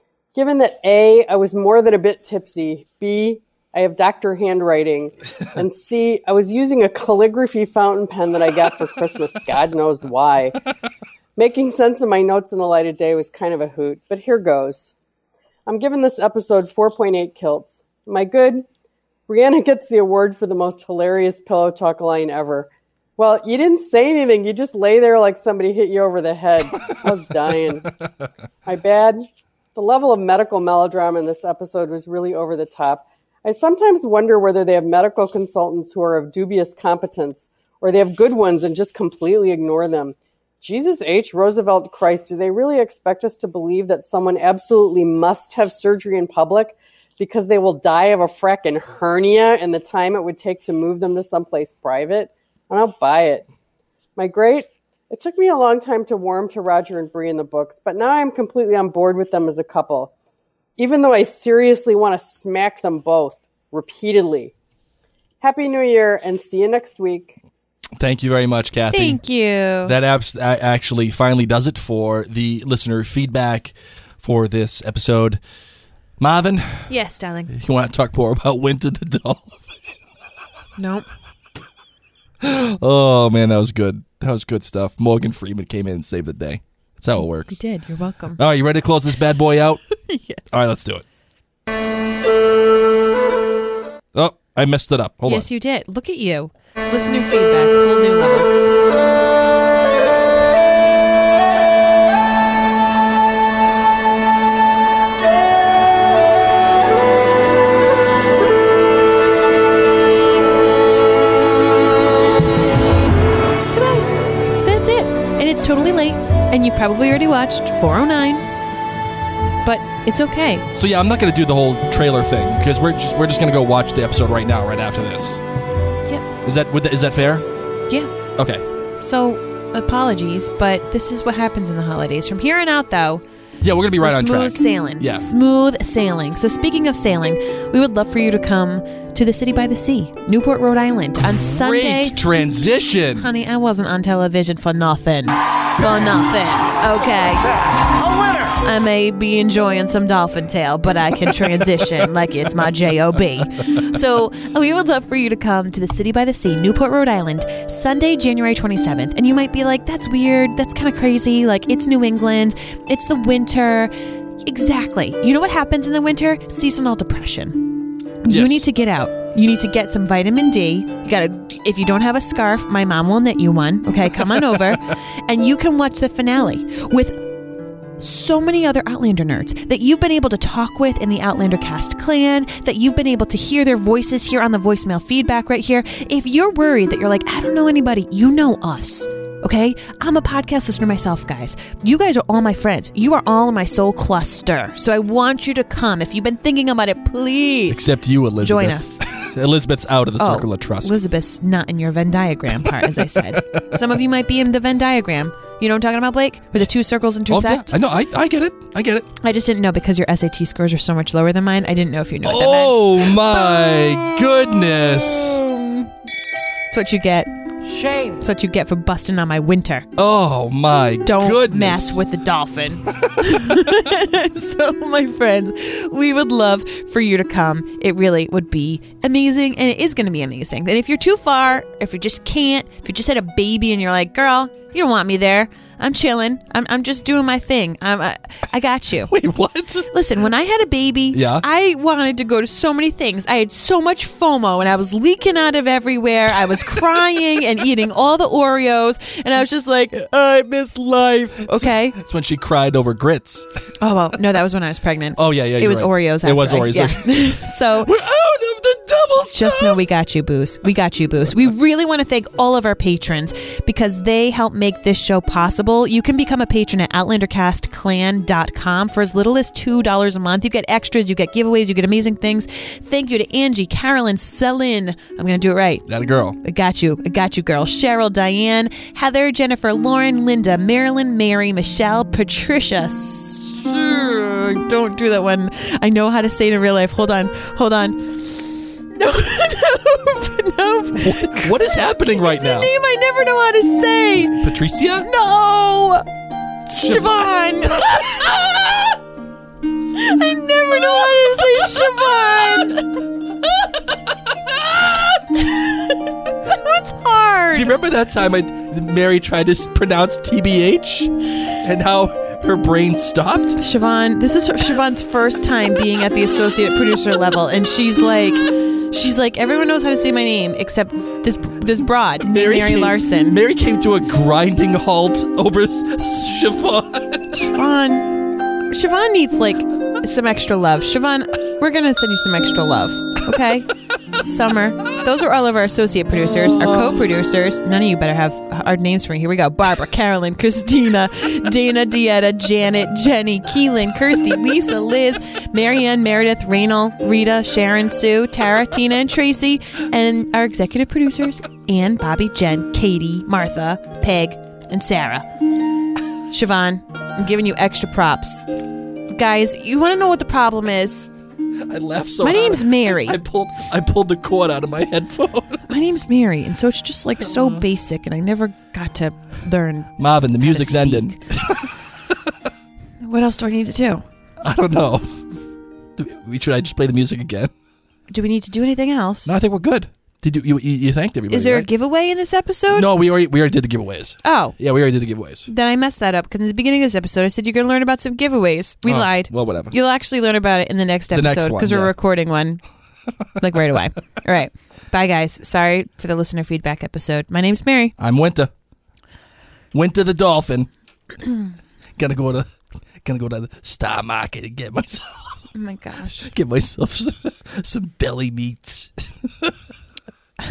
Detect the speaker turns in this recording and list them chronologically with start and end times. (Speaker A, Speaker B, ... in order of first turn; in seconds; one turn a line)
Speaker A: 0.3-10.6
Speaker A: 11.4-14.9
Speaker A: 15.7-18.6
Speaker A: 19.3-27.9
Speaker A: 28.6-53.5
Speaker A: 54.2-60.1
Speaker A: 60.8-64.5
Speaker A: 65.4-67.3
Speaker B: 68.0-69.2
Speaker C: 68.9-69.9
Speaker B: 69.8-75.4
Speaker B: 76.2-76.9
Speaker C: 76.9-77.5
Speaker B: 77.5-79.8
Speaker C: 80.8-81.1
Speaker B: 82.4-87.6
Speaker C: 87.1-88.4
Speaker B: 88.3-91.0
Speaker C: 90.0-90.6
Speaker B: 94.1-95.5
Speaker C: 95.2-98.5
Speaker C: 113.7-118.5
Speaker C: 119.6-120.7
Speaker B: 120.7-125.4
Speaker B: 126.4-127.4
Speaker B: 128.3-128.6
Speaker C: 129.0-133.2
Speaker B: 133.6-135.3
Speaker C: 134.0-147.6
Speaker B: 141.2-143.3
Speaker C: 148.5-163.9
Speaker C: 164.4-177.4
Speaker B: 168.3-168.6
Speaker B: 174.3-174.8
Speaker C: 178.0-199.0
Speaker B: 197.7-200.9
Speaker C: 200.2-207.7
Speaker B: 202.6-203.7
Speaker B: 207.3-209.1
Speaker C: 209.2-214.1
Speaker B: 212.2-215.4
Speaker C: 215.4-215.9
Speaker C: 216.7-217.3
Speaker C: 217.9-219.9
Speaker B: 220.0-222.0
Speaker C: 221.0-239.1
Speaker B: 239.1-239.9
Speaker C: 239.9-252.0
Speaker B: 241.1-241.4
Speaker B: 251.4-253.5
Speaker C: 253.8-257.9
Speaker B: 255.2-257.2
Speaker B: 257.8-259.8
Speaker C: 259.3-275.9
Speaker B: 275.9-276.4
Speaker C: 276.4-291.6
Speaker B: 290.9-292.7
Speaker C: 292.2-294.5
Speaker B: 294.4-295.1
Speaker C: 295.0-296.0
Speaker C: 296.7-298.7
Speaker B: 296.7-297.1
Speaker B: 297.8-298.1
Speaker C: 299.9-303.0
Speaker C: 305.3-307.7
Speaker B: 307.5-313.6
Speaker C: 313.6-323.4
Speaker B: 322.2-327.5
Speaker C: 327.5-355.2
Speaker B: 336.1-337.0
Speaker C: 356.3-358.5
Speaker C: 359.1-361.1
Speaker B: 361.7-365.7
Speaker C: 362.2-363.2
Speaker C: 365.7-371.2
Speaker B: 367.2-367.6
Speaker B: 370.0-371.7
Speaker C: 373.0-374.1
Speaker B: 374.4-375.4
Speaker B: 376.0-377.5
Speaker C: 378.1-379.3
Speaker B: 379.2-381.7
Speaker C: 381.3-382.9
Speaker B: 382.7-385.5
Speaker C: 384.2-384.6
Speaker C: 385.4-392.6
Speaker B: 388.8-389.7
Speaker B: 391.1-391.9
Speaker C: 393.4-397.9
Speaker B: 398.0-398.5
Speaker B: 399.7-400.7
Speaker B: 401.9-402.5
Speaker B: 403.0-405.4
Speaker C: 405.5-406.3
Speaker B: 406.2-409.5